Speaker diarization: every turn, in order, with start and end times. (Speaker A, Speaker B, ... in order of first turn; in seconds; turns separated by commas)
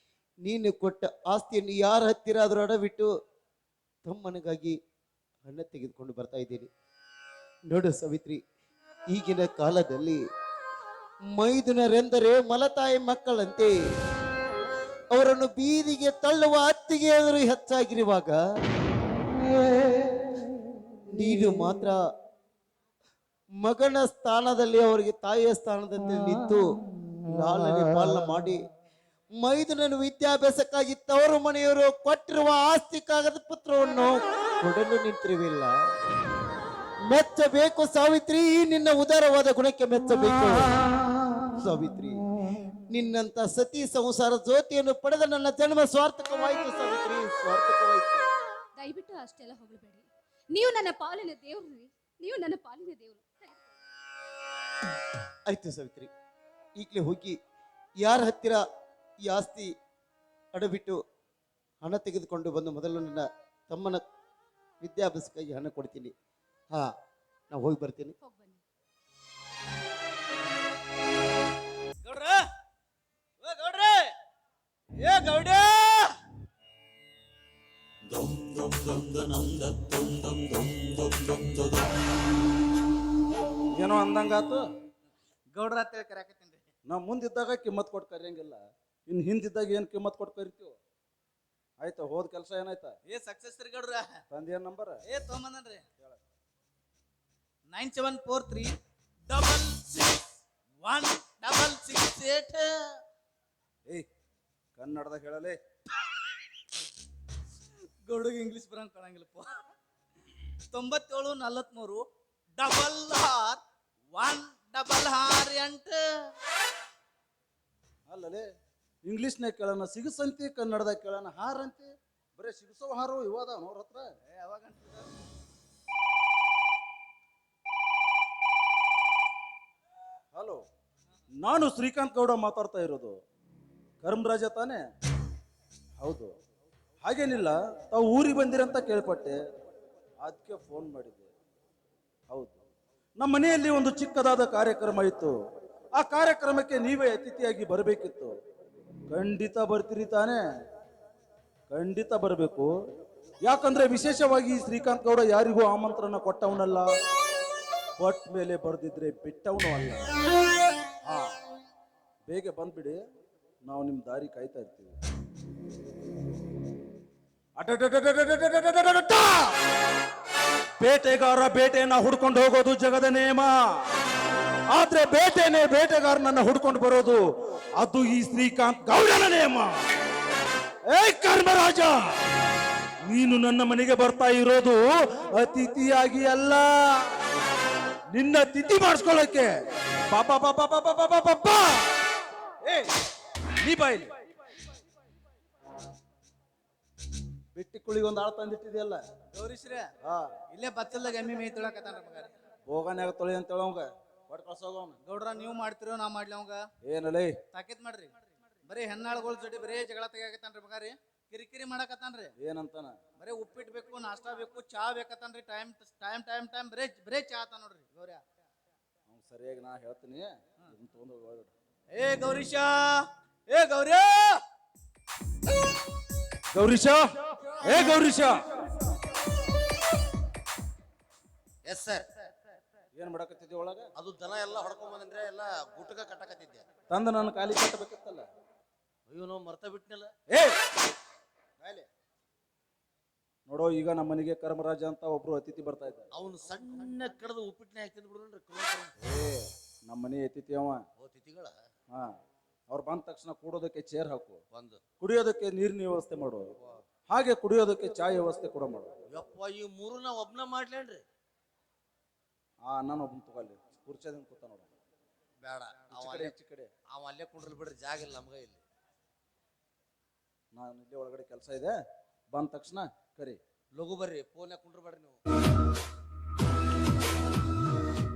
Speaker A: 0.4-3.1, Speaker A: 4.0-4.8, Speaker A: 5.4-6.7, Speaker A: 7.7-8.4, Speaker A: 9.1-10.2, Speaker A: 11.3-13.7, Speaker A: 15.1-18.4, Speaker A: 21.1-21.9, Speaker A: 23.6-26.6, Speaker A: 27.3-28.6, Speaker A: 29.4-35.7, Speaker A: 37.1-40.7, Speaker A: 41.6-42.1, Speaker A: 42.9-48.3, Speaker B: 48.8-53.8, Speaker A: 55.5-56.1, Speaker A: 56.8-57.4, Speaker A: 58.0-58.6, Speaker A: 59.2-59.7, Speaker A: 60.5-61.0, Speaker A: 61.8-64.0, Speaker A: 64.8-66.1, Speaker A: 67.5-68.1, Speaker B: 68.2-68.6, Speaker C: 72.0-72.5, Speaker C: 73.4-74.1, Speaker C: 75.0-76.1, Speaker D: 78.1-81.8, Speaker D: 83.7-84.6, Speaker C: 85.5-86.7, Speaker D: 86.9-90.7, Speaker D: 91.8-92.9, Speaker C: 93.1-94.1, Speaker D: 94.3-95.0, Speaker C: 95.1-95.8, Speaker C: 97.7-98.7, Speaker C: 99.3-100.3, Speaker C: 100.8-102.7, Speaker D: 104.8-105.6, Speaker C: 108.0-109.6, Speaker C: 110.7-112.0, Speaker C: 112.6-113.6, Speaker C: 114.1-116.0, Speaker D: 118.1-118.4, Speaker D: 119.0-124.1, Speaker C: 124.3-125.1, Speaker D: 130.3-130.6, Speaker D: 131.4-133.2, Speaker D: 134.0-134.8, Speaker D: 136.0-136.3, Speaker D: 137.0-139.4, Speaker D: 140.2-141.3, Speaker D: 142.3-142.6, Speaker D: 143.2-145.3, Speaker D: 146.0-148.3, Speaker D: 149.1-150.4, Speaker D: 151.7-152.7, Speaker D: 153.4-156.8, Speaker D: 158.0-160.1, Speaker D: 161.0-161.3, Speaker D: 162.3-163.0, Speaker D: 163.6-165.0, Speaker D: 167.6-169.5, Speaker D: 170.8-173.5, Speaker D: 174.7-177.2, Speaker D: 177.8-179.7, Speaker D: 180.9-182.1, Speaker D: 183.0-187.1, Speaker D: 188.1-189.5, Speaker D: 190.1-192.9, Speaker D: 193.6-194.1, Speaker D: 197.5-199.0, Speaker C: 199.3-199.9, Speaker D: 200.0-200.4, Speaker C: 200.5-202.3, Speaker D: 202.7-205.0, Speaker C: 205.0-206.6, Speaker D: 206.8-207.4, Speaker C: 207.5-208.1, Speaker C: 208.7-212.3, Speaker D: 212.4-212.9, Speaker C: 213.2-218.2, Speaker D: 219.1-221.5, Speaker C: 221.9-224.4, Speaker D: 226.5-228.4, Speaker E: 231.6-232.1, Speaker D: 232.9-233.8, Speaker E: 233.9-236.6, Speaker D: 236.9-238.2, Speaker E: 239.1-240.1, Speaker D: 240.3-240.6, Speaker D: 243.5-246.1, Speaker E: 246.1-248.9, Speaker D: 249.0-250.8, Speaker E: 251.0-251.5, Speaker D: 252.7-254.4, Speaker E: 254.5-254.8, Speaker D: 255.0-256.4, Speaker D: 257.1-258.9, Speaker E: 259.1-261.0, Speaker D: 262.6-264.7, Speaker E: 265.4-266.3, Speaker D: 265.9-266.7, Speaker E: 266.9-268.6, Speaker D: 270.5-271.7, Speaker D: 272.3-273.4, Speaker E: 273.7-275.2